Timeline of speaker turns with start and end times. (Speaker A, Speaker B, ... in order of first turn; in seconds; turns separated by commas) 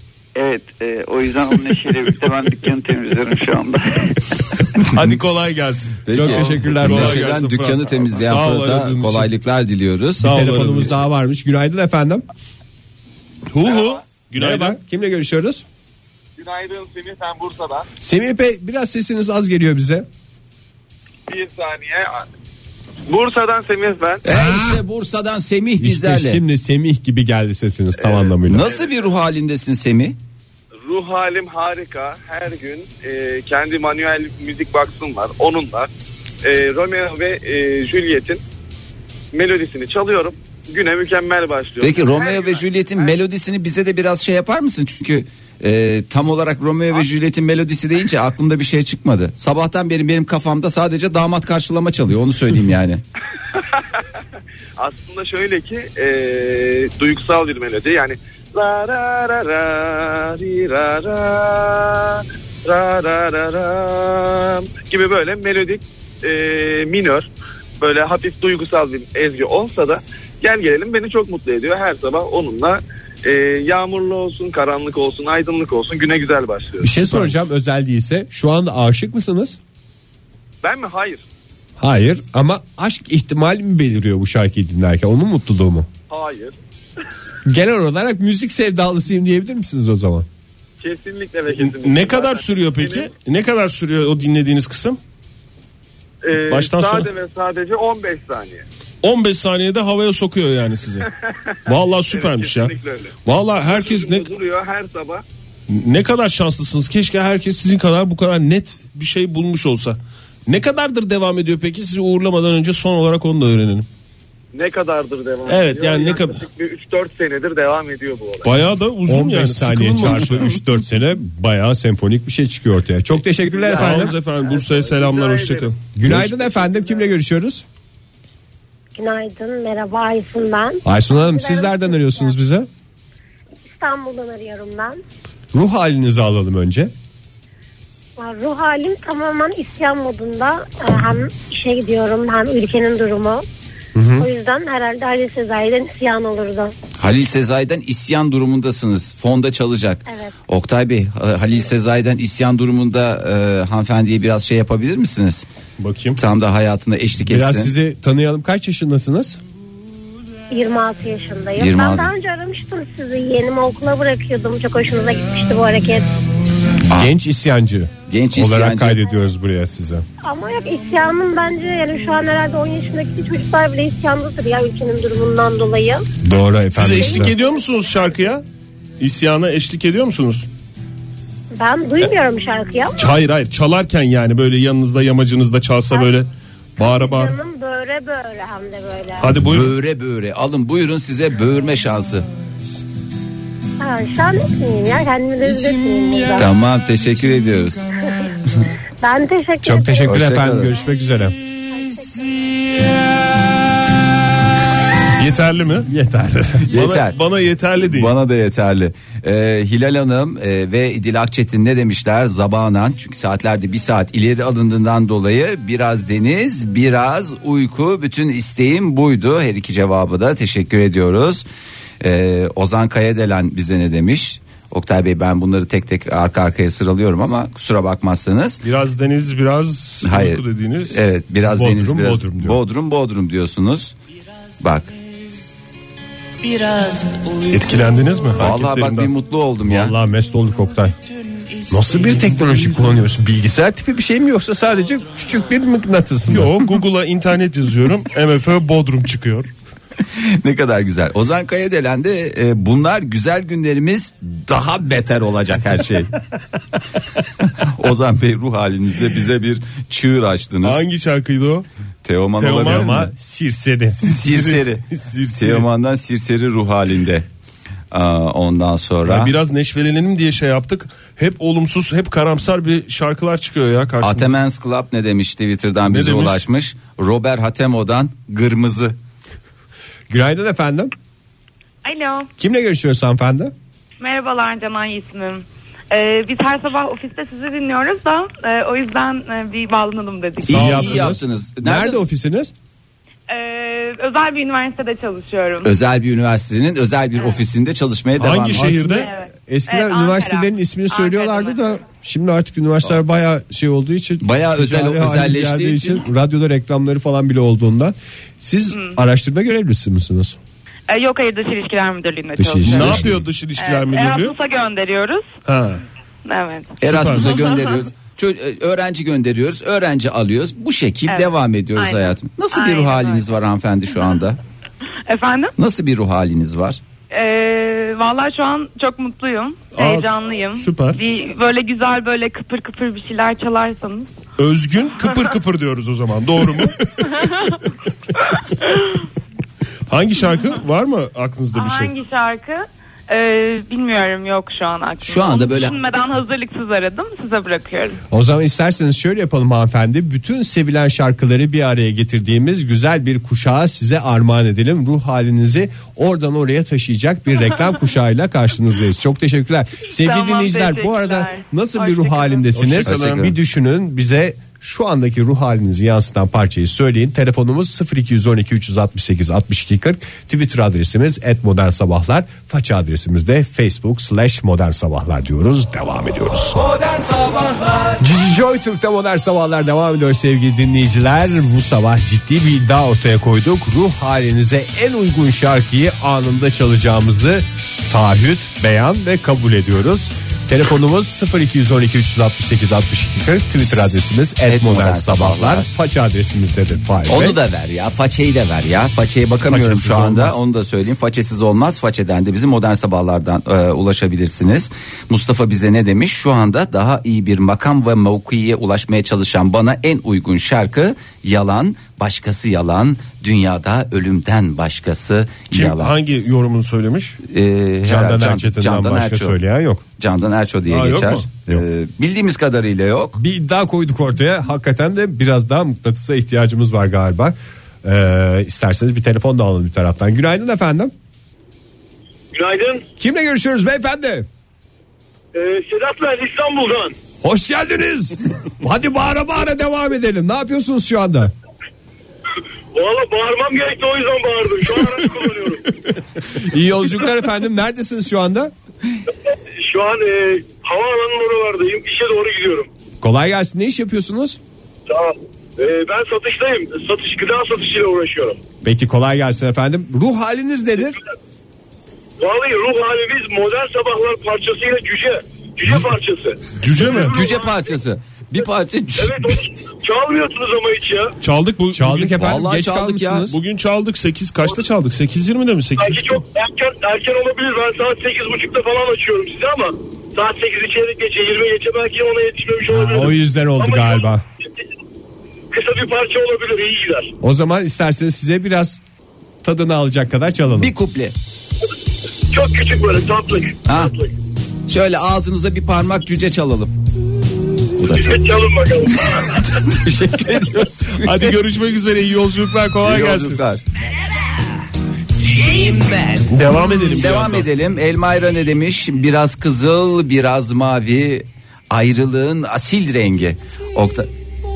Speaker A: 0.3-4.6, Speaker B: 4.8-9.3, Speaker C: 6.1-10.3, Speaker D: 6.1-7.2, Speaker B: 10.2-11.0, Speaker D: 10.2-12.2, Speaker B: 13.5-14.8, Speaker E: 13.6-14.1, Speaker D: 14.3-15.7, Speaker E: 16.4-17.9, Speaker D: 18.0-20.1, Speaker E: 21.3-22.3, Speaker E: 23.1-24.2, Speaker C: 24.2-26.4, Speaker D: 24.4-24.8, Speaker D: 25.8-28.7, Speaker E: 28.0-29.1, Speaker C: 28.5-30.2, Speaker E: 30.9-35.9, Speaker E: 36.4-38.4, Speaker E: 39.3-43.1, Speaker C: 41.8-53.0, Speaker E: 54.8-67.3, Speaker E: 67.8-77.0, Speaker D: 76.8-79.6, Speaker E: 80.6-81.2, Speaker D: 81.8-85.9, Speaker E: 86.1-86.6, Speaker D: 87.5-90.3, Speaker E: 90.8-93.1, Speaker B: 91.6-95.0, Speaker E: 96.2-98.7, Speaker B: 96.5-97.1, Speaker B: 99.0-101.1, Speaker B: 101.7-104.3, Speaker E: 102.1-105.2, Speaker B: 105.7-113.9, Speaker E: 114.5-118.6, Speaker B: 115.5-116.4, Speaker B: 118.4-120.6, Speaker D: 119.1-124.2, Speaker E: 123.5-125.8, Speaker B: 123.7-126.2, Speaker D: 126.0-127.7, Speaker E: 126.3-127.0, Speaker F: 128.9-132.3, Speaker D: 130.8-132.7, Speaker F: 133.7-135.0, Speaker D: 135.5-136.9, Speaker F: 138.2-143.4, Speaker D: 143.9-144.3, Speaker F: 144.2-146.7, Speaker C: 147.0-155.5, Speaker F: 150.1-150.3, Speaker B: 155.8-156.2, Speaker C: 156.2-157.7, Speaker D: 157.3-159.4, Speaker F: 160.5-166.1, Speaker C: 161.6-162.1, Speaker D: 166.9-170.1, Speaker C: 168.1-169.0, Speaker F: 170.2-176.1, Speaker D: 176.2-177.3, Speaker B: 176.7-178.4, Speaker F: 177.0-177.6, Speaker B: 179.0-180.5, Speaker F: 181.5-183.0, Speaker B: 183.0-187.3, Speaker F: 186.8-189.3, Speaker B: 189.2-189.7, Speaker C: 189.4-192.3, Speaker F: 193.8-196.5, Speaker C: 196.4-197.9, Speaker F: 199.0-200.0, Speaker D: 199.6-201.4, Speaker C: 200.1-200.7, Speaker F: 201.7-202.8, Speaker B: 205.2-205.9, Speaker D: 205.9-206.7, Speaker C: 206.7-207.2, Speaker B: 206.7-208.1, Speaker C: 207.8-221.5, Speaker C: 222.0-228.6, Speaker B: 228.6-231.0, Speaker C: 230.0-233.9, Speaker D: 231.5-232.6, Speaker C: 234.6-234.9, Speaker G: 236.4-237.8, Speaker B: 237.5-239.1, Speaker C: 238.4-239.9, Speaker D: 239.6-240.9, Speaker D: 241.7-246.6, Speaker B: 246.3-249.5, Speaker C: 250.1-256.1, Speaker C: 257.6-260.8, Speaker B: 260.6-261.7, Speaker C: 262.0-263.0, Speaker B: 262.4-263.1, Speaker D: 262.6-264.3, Speaker C: 264.0-267.3, Speaker B: 264.3-265.7, Speaker C: 267.9-269.3, Speaker B: 269.1-274.3, Speaker C: 274.0-279.0, Speaker B: 275.9-276.4, Speaker D: 280.1-280.9, Speaker H: 281.8-282.3, Speaker D: 282.4-283.5, Speaker H: 284.0-290.6, Speaker C: 290.5-292.0, Speaker D: 290.5-292.5, Speaker B: 290.6-291.0, Speaker H: 293.3-295.7, Speaker C: 295.6-298.9, Speaker B: 298.2-299.1, Speaker D: 298.6-310.4, Speaker H: 299.0-301.6, Speaker C: 304.2-306.0, Speaker H: 308.7-309.0, Speaker H: 310.9-315.3, Speaker D: 312.4-313.2, Speaker B: 312.6-314.4, Speaker B: 315.5-315.8, Speaker H: 316.2-317.9, Speaker C: 316.8-324.4, Speaker B: 316.8-317.4, Speaker H: 321.1-323.3, Speaker H: 325.1-325.5, Speaker C: 325.6-326.8, Speaker H: 327.1-334.2, Speaker B: 329.7-331.0, Speaker B: 334.4-336.8, Speaker B: 339.9-341.9, Speaker H: 341.5-348.0, Speaker C: 345.0-345.8, Speaker D: 348.1-376.7, Speaker H: 359.9-362.5, Speaker B: 362.5-363.3, Speaker C: 362.6-363.3, Speaker D: 378.0-397.4, Speaker C: 394.5-395.7, Speaker C: 397.1-415.9, Speaker D: 399.5-400.4, Speaker B: 415.5-417.2, Speaker C: 417.3-419.4, Speaker D: 417.8-419.8, Speaker C: 420.0-423.2, Speaker B: 420.7-421.3, Speaker D: 423.2-430.9, Speaker I: 432.3-432.8, Speaker D: 433.0-434.3, Speaker I: 435.3-437.0, Speaker D: 437.2-441.3, Speaker I: 442.7-445.6, Speaker D: 446.3-448.5, Speaker I: 449.6-452.7, Speaker D: 453.0-454.4, Speaker I: 454.9-458.4, Speaker D: 458.6-461.0, Speaker I: 462.2-467.7, Speaker B: 466.6-467.2, Speaker C: 466.8-469.3, Speaker I: 468.9-471.1, Speaker B: 471.2-472.2, Speaker D: 471.7-473.4, Speaker C: 472.2-473.3, Speaker B: 473.3-476.2, Speaker I: 475.8-484.1, Speaker D: 482.7-484.2, Speaker I: 485.5-487.1, Speaker D: 487.2-488.8, Speaker D: 489.4-490.7, Speaker C: 490.6-491.1, Speaker I: 492.3-494.1, Speaker C: 493.7-493.9, Speaker C: 494.7-496.7, Speaker C: 497.8-498.2, Speaker I: 498.1-499.1, Speaker C: 499.1-501.3, Speaker B: 500.8-503.4, Speaker C: 502.8-503.6, Speaker G: 505.4-506.2, Speaker B: 506.3-507.5, Speaker C: 506.9-514.1